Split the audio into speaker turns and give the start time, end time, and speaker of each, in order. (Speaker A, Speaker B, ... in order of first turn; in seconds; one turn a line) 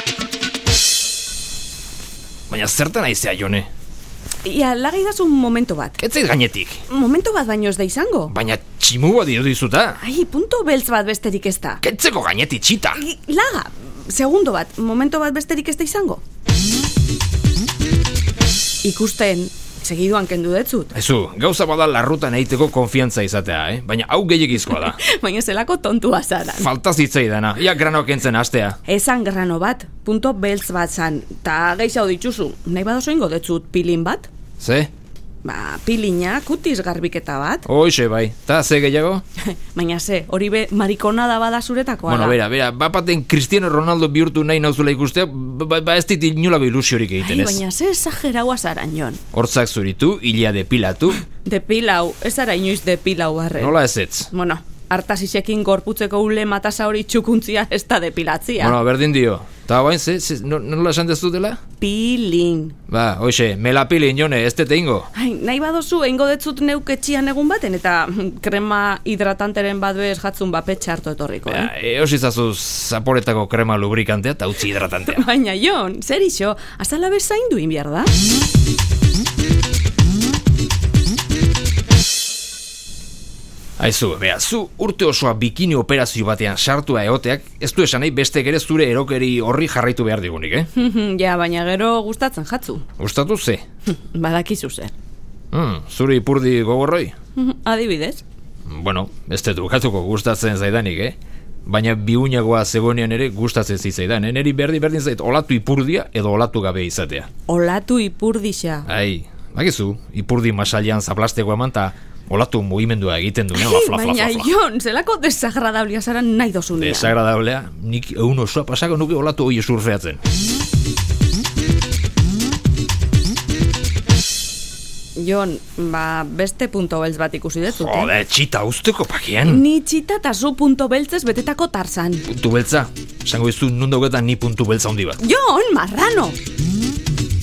Speaker A: 2.5-3.7
Speaker B: 4.4-6.0
Speaker A: 6.0-6.8
Speaker B: 6.9-8.3
Speaker A: 8.3-10.0
Speaker B: 10.0-11.8
Speaker A: 11.8-13.0
Speaker B: 13.0-16.2
Speaker B: 18.8-20.9
Speaker A: 20.9-25.0
Speaker B: 24.7-26.7
Speaker A: 26.5-28.8
Speaker B: 28.9-34.3
Speaker A: 34.6-34.9
Speaker B: 35.4-37.7
Speaker A: 37.6-39.2
Speaker B: 39.7-42.4
Speaker A: 42.1-47.6
Speaker B: 47.2-49.2
Speaker A: 49.3-51.2
Speaker B: 51.4-53.8
Speaker A: 53.6-54.3
Speaker B: 54.3-58.8
Speaker A: 58.6-61.6
Speaker B: 61.8-62.8
Speaker A: 62.9-65.1
Speaker B: 65.1-71.7
Speaker A: 71.5-75.2
Speaker B: 75.1-78.1
Speaker A: 83.8-90.7
Speaker B: 90.8-92.8
Speaker A: 93.0-93.6
Speaker B: 93.9-94.9
Speaker A: 95.5-97.1
Speaker B: 97.3-98.2
Speaker A: 98.7-107.3
Speaker B: 107.5-108.9
Speaker A: 108.9-114.5
Speaker B: 113.5-117.2
Speaker A: 116.8-120.2
Speaker B: 125.2-128.2
Speaker A: 127.7-129.7
Speaker B: 129.4-132.3
Speaker A: 132.3-135.2
Speaker B: 135.2-136.4